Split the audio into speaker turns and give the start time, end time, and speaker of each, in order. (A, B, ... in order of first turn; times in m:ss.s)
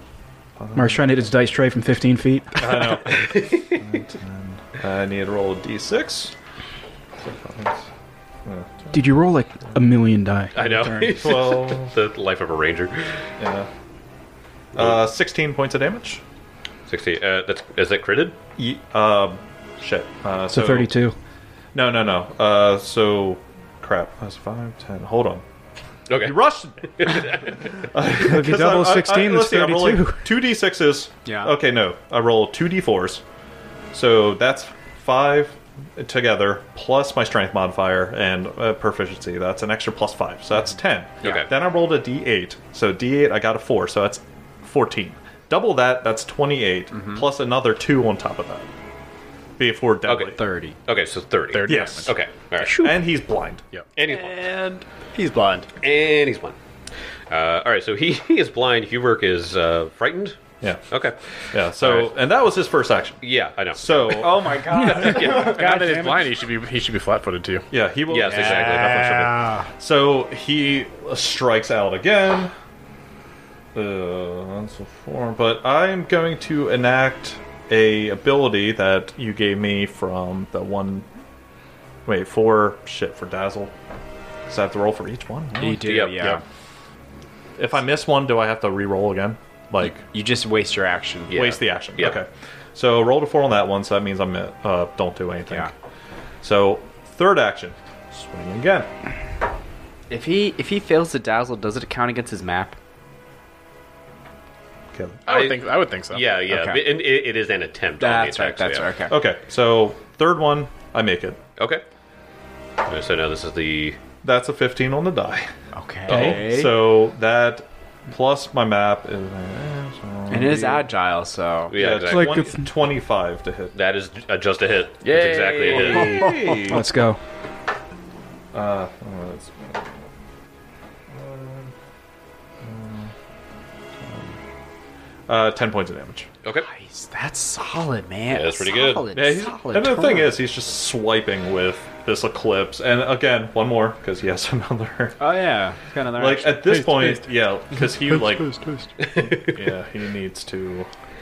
0:00.6-0:01.3 A
0:00.8-0:02.8 B
0:02.6-0:06.3 A
0:03.1-0:03.8 C
0:07.2-0:07.8 A
0:08.4-0:09.0 A
0:08.9-0:11.2 B
0:10.5-0:13.3 C
0:11.1-0:11.9 A
0:13.4-0:13.7 A
0:14.7-0:15.0 C
0:14.8-0:16.2 A
0:16.9-0:18.4 C
0:18.6-0:20.9 A
0:20.5-0:21.2 B
0:21.7-0:25.4 A
0:26.1-0:27.9 C
0:26.1-0:33.2 A
0:28.2-0:30.2 B
0:31.2-0:31.5 D
0:33.9-0:48.7 A
0:41.2-0:41.5 C
0:46.9-0:47.2 D
0:49.6-0:50.4 A
0:50.0-0:52.8 C
0:50.3-0:50.8 D
0:51.5-0:52.1 E
0:51.6-0:53.6 A
0:52.6-0:53.0 B
0:54.0-0:54.4 C
0:54.0-0:55.7 D
0:55.8-0:56.6 C
0:57.3-1:00.4 C
1:00.9-1:02.1 C
1:01.5-1:03.2 A
1:03.2-1:05.5 C
1:03.7-1:05.3 A
1:04.2-1:05.5 D
1:04.7-1:06.3 B
1:05.0-1:07.7 E
1:07.7-1:12.5 A
1:08.1-1:09.1 C
1:08.2-1:09.7 D
1:13.7-1:21.1 A
1:22.0-1:23.7 A
1:24.5-1:26.0 A
1:25.6-1:26.4 D
1:25.8-1:26.4 C
1:27.6-1:30.0 A
1:29.8-1:31.6 D
1:31.3-1:32.2 C
1:31.3-1:35.7 A
1:36.4-1:38.9 A
1:40.1-1:42.8 D
1:44.9-1:45.2 A
1:45.2-1:46.3 E
1:45.3-1:48.9 C
1:46.5-1:46.8 D
1:48.0-1:49.1 D
1:49.1-1:51.4 A
1:51.6-1:51.8 C
1:52.8-1:54.0 C
1:54.2-1:55.5 A
1:55.7-1:56.8 D
1:56.1-2:00.8 A
1:56.1-1:56.4 B
2:00.3-2:01.7 D
2:01.7-2:02.5 C
2:01.7-2:03.7 A
2:02.0-2:02.7 B
2:03.7-2:06.4 C
2:05.0-2:06.8 E
2:05.7-2:06.8 A
2:05.8-2:06.7 D
2:06.6-2:07.2 B
2:08.5-2:09.9 A
2:11.1-2:11.7 A
2:12.6-2:13.1 A
2:14.0-2:14.4 A
2:15.3-2:16.3 A
2:16.6-2:20.4 D
2:18.3-2:19.1 C
2:19.1-2:25.2 A
2:25.2-2:26.9 D
2:26.2-2:30.9 A
2:26.7-2:27.2 E
2:27.9-2:28.8 E
2:29.0-2:29.6 C